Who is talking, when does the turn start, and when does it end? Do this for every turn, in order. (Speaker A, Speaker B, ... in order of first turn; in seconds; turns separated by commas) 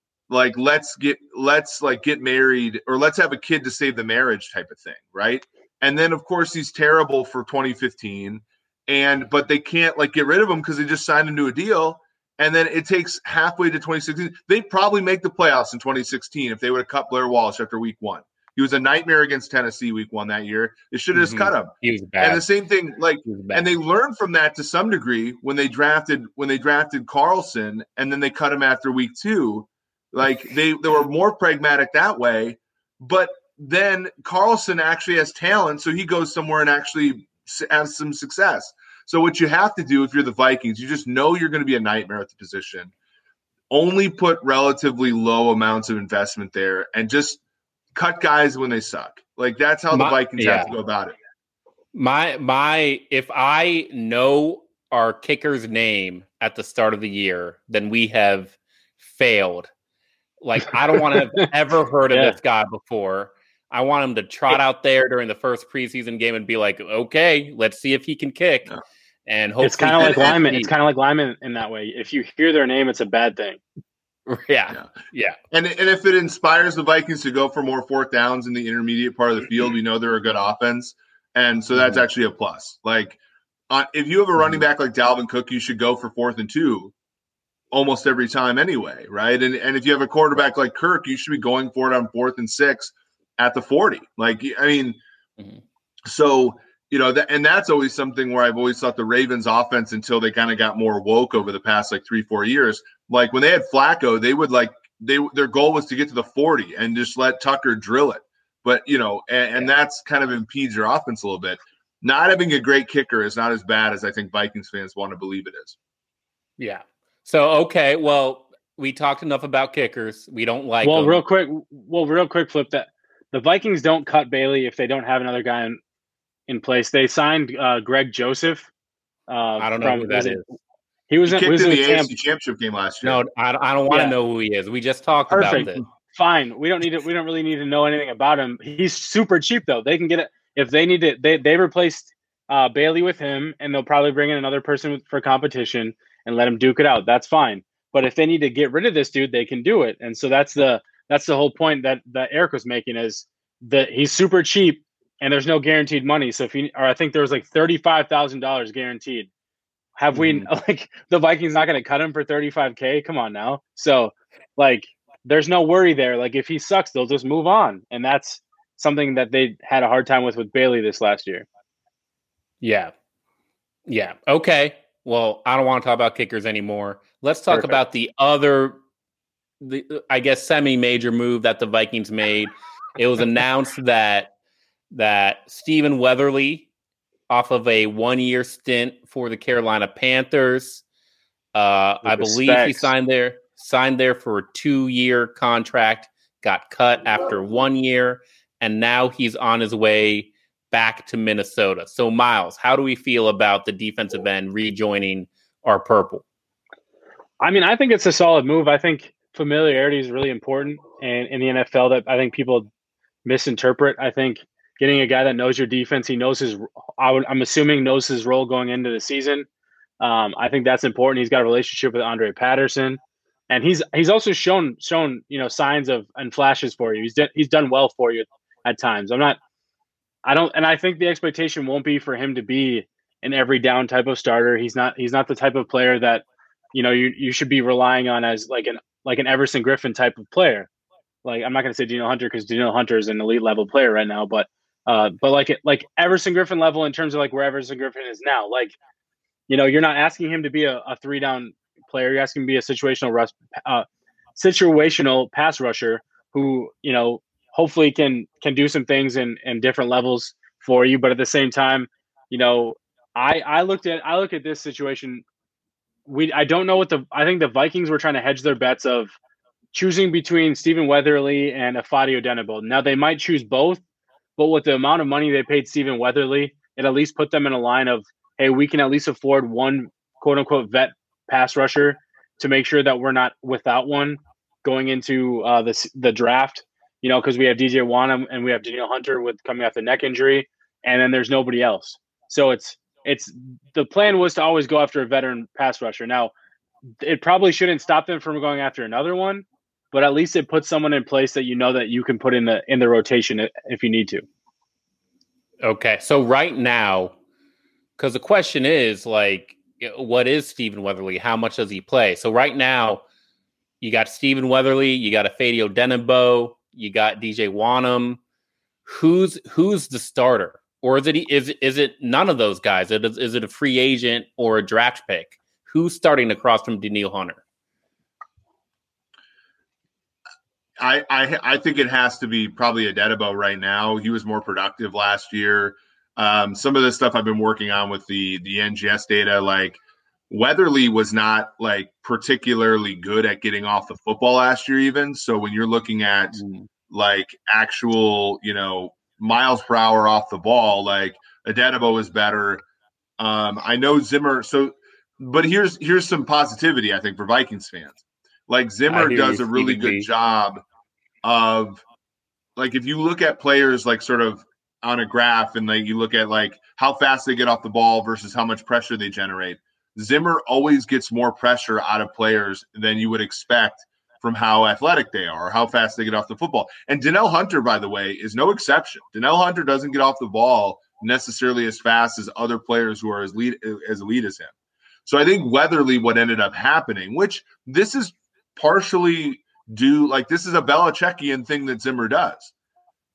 Speaker A: 0.3-42.9, Speaker B: 21.1-22.4, Speaker B: 23.2-23.6, Speaker A: 43.7-47.4, Speaker A: 47.9-51.1, Speaker B: 49.9-50.7, Speaker B: 51.9-59.7, Speaker B: 60.4-68.7, Speaker C: 60.9-61.5, Speaker B: 69.2-70.7, Speaker C: 69.6-73.6, Speaker A: 70.0-70.3, Speaker B: 74.3-75.3, Speaker A: 75.5-83.2, Speaker B: 81.7-82.0, Speaker A: 83.7-86.9, Speaker A: 87.7-95.0, Speaker A: 96.1-115.8, Speaker B: 116.6-121.2, Speaker C: 120.8-125.8, Speaker C: 126.5-128.7, Speaker C: 129.3-130.6, Speaker B: 129.6-130.4, Speaker C: 131.1-132.1, Speaker A: 131.2-133.2, Speaker B: 133.0-135.8, Speaker C: 133.9-134.1, Speaker C: 135.3-159.3, Speaker A: 135.4-135.7, Speaker C: 160.0-171.4, Speaker B: 160.1-160.5, Speaker B: 172.6-172.9, Speaker B: 173.9-178.8, Speaker C: 177.5-177.8, Speaker B: 179.6-184.3, Speaker B: 184.9-186.7, Speaker B: 187.3-190.8, Speaker B: 191.5-206.2, Speaker C: 192.0-192.9, Speaker C: 207.4-212.7, Speaker C: 213.2-219.5, Speaker C: 220.0-229.4, Speaker C: 230.2-240.7, Speaker C: 241.2-248.8, Speaker C: 249.5-265.2, Speaker C: 266.1-269.1, Speaker C: 269.7-273.8, Speaker C: 274.4-296.3, Speaker C: 297.0-304.2, Speaker B: 305.6-307.1, Speaker B: 308.0-313.0, Speaker B: 313.8-318.2, Speaker B: 318.9-327.4, Speaker A: 330.8-352.6, Speaker B: 346.4-346.6, Speaker A: 353.2-360.6, Speaker B: 358.9-360.1, Speaker A: 361.2-361.8, Speaker A: 362.6-384.5, Speaker A: 385.1-392.5